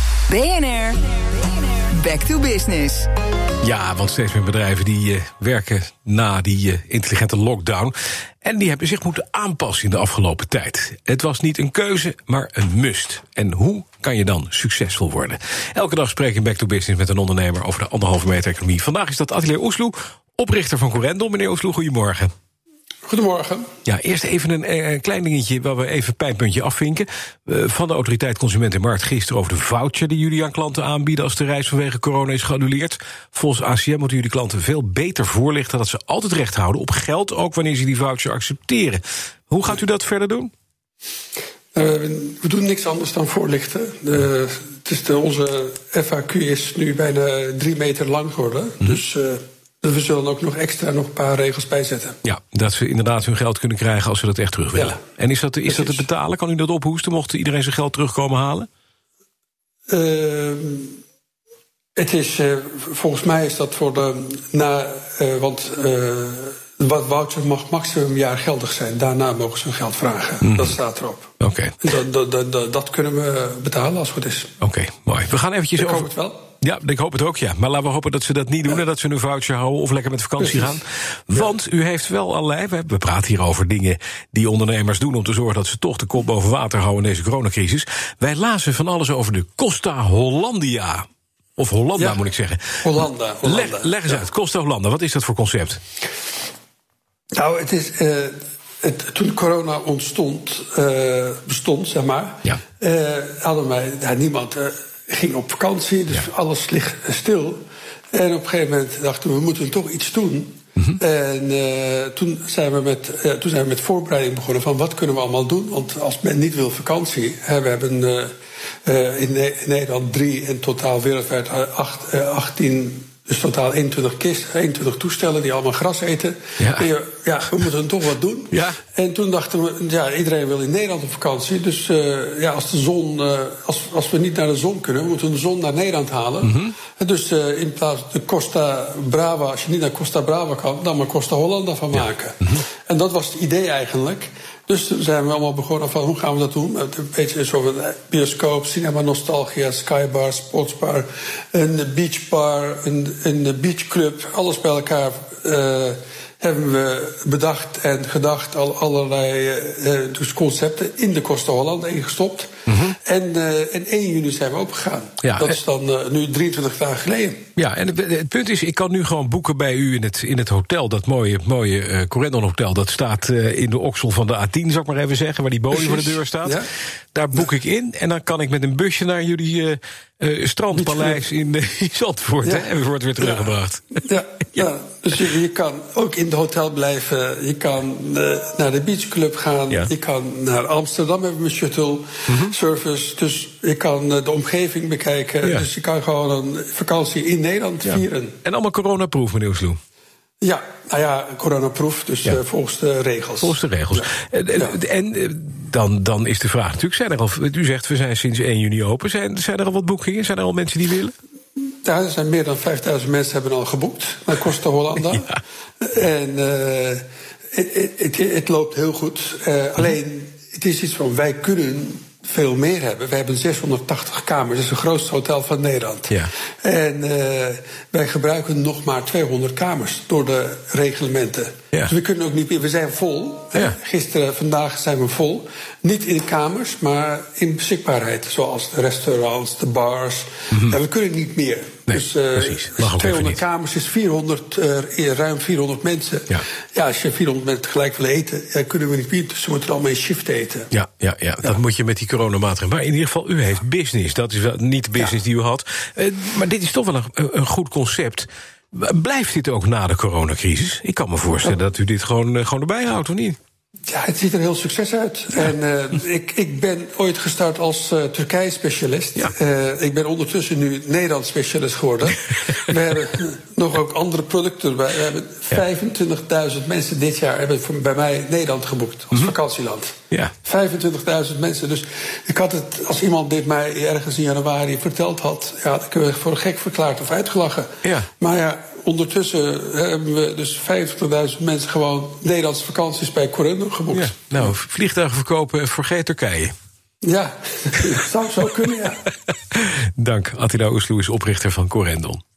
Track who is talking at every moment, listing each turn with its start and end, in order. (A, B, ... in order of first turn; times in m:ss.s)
0:00.3-0:03.1 A
0:03.6-0:22.3 B
0:23.1-0:23.7 C
0:23.8-0:40.5 B
0:41.7-0:52.2 C
0:52.2-0:58.7 B
0:55.7-0:56.0 C
0:59.9-1:01.0 C
1:02.0-1:14.5 C
1:10.4-1:10.8 B
1:11.4-1:11.8 B
1:14.6-1:16.1 B
1:15.8-1:16.4 C
1:16.6-1:31.0 B
1:20.4-1:20.8 C
1:31.6-1:35.8 B
1:32.0-1:32.2 C
1:32.8-1:34.2 C
1:37.3-1:47.6 C
1:48.1-1:58.3 C
1:58.8-2:47.4 C
2:06.6-2:06.9 B
2:08.5-2:08.8 B
2:16.4-2:16.7 B
2:42.7-2:43.0 B
2:45.2-2:45.6 B
2:47.6-3:04.0 B
2:55.7-2:56.7 C
3:00.7-3:01.2 C
3:03.2-3:18.4 C
3:12.3-3:12.5 B
3:17.8-3:19.8 B
3:20.4-3:24.8 C
3:23.4-3:31.1 B
3:31.8-4:10.7 C
4:01.9-4:03.4 B
4:10.7-4:23.4 B
4:23.9-4:54.5 C
4:47.8-4:48.1 B
4:53.9-4:56.5 B
4:57.0-4:59.0 C
4:59.5-5:02.2 B